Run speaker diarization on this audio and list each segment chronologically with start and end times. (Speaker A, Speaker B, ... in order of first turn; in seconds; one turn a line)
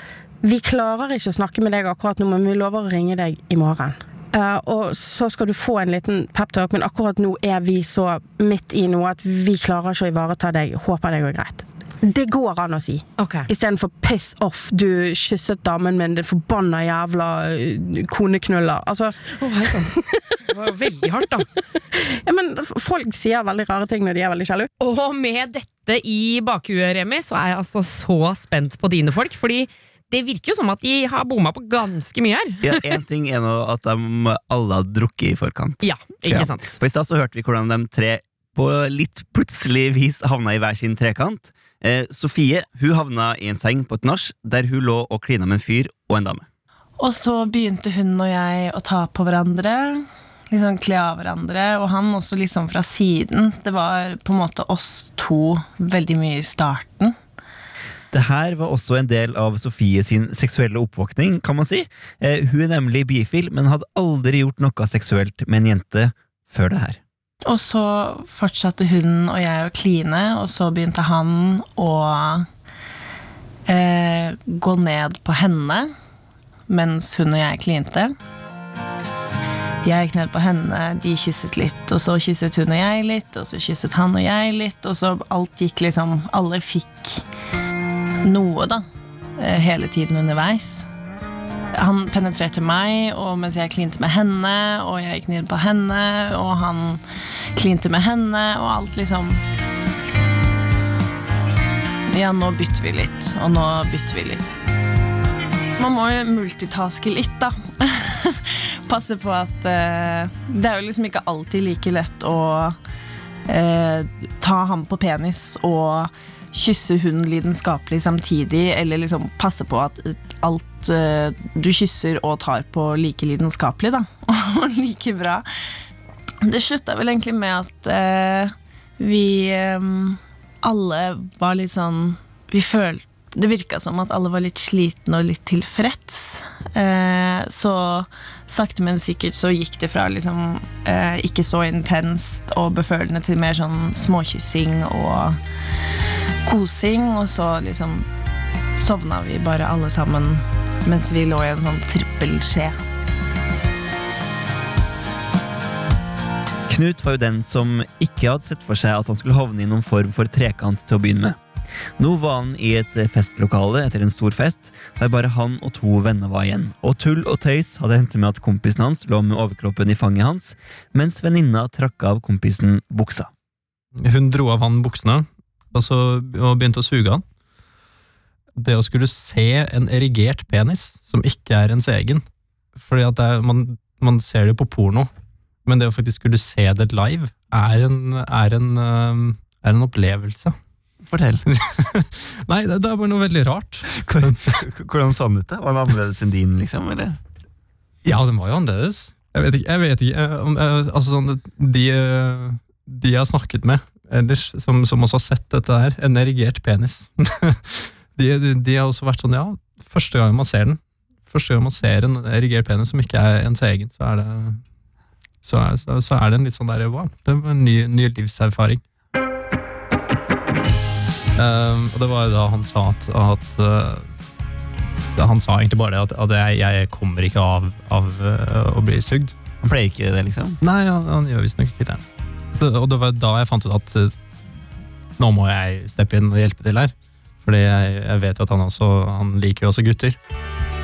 Speaker A: 0.4-20.4
Speaker B: 13.2-13.5
Speaker B: 19.4-19.9
Speaker B: 20.5-21.5
Speaker A: 21.9-24.7
Speaker B: 24.8-32.9
Speaker C: 32.6-46.5
Speaker B: 35.8-36.8
Speaker D: 47.0-57.2
Speaker C: 58.1-67.0
Speaker D: 67.5-72.5
Speaker D: 73.7-75.9
Speaker D: 76.7-78.2
Speaker D: 79.8-87.2
Speaker D: 88.2-88.9
Speaker D: 89.4-90.9
Speaker D: 91.8-97.0
Speaker D: 97.5-99.4
Speaker D: 102.1-104.5
Speaker D: 105.8-112.8
Speaker D: 113.5-125.5
Speaker D: 126.4-145.4
Speaker D: 146.4-148.1
Speaker D: 148.8-152.8
Speaker C: 156.7-161.4
Speaker C: 162.0-173.3
Speaker E: 174.0-177.2
Speaker E: 178.6-182.2
Speaker E: 182.8-185.1
Speaker E: 185.7-190.6
Speaker C: 191.1-191.4
Speaker E: 191.5-194.6
Speaker C: 193.9-197.2
Speaker E: 198.1-210.8
Speaker E: 211.3-214.6
Speaker E: 215.4-218.8
Speaker E: 221.4-224.1
Speaker E: 225.2-229.3
Speaker C: 229.6-230.6
Speaker E: 230.6-232.0
Speaker E: 232.5-234.2
Speaker E: 235.2-236.9
Speaker E: 237.4-240.2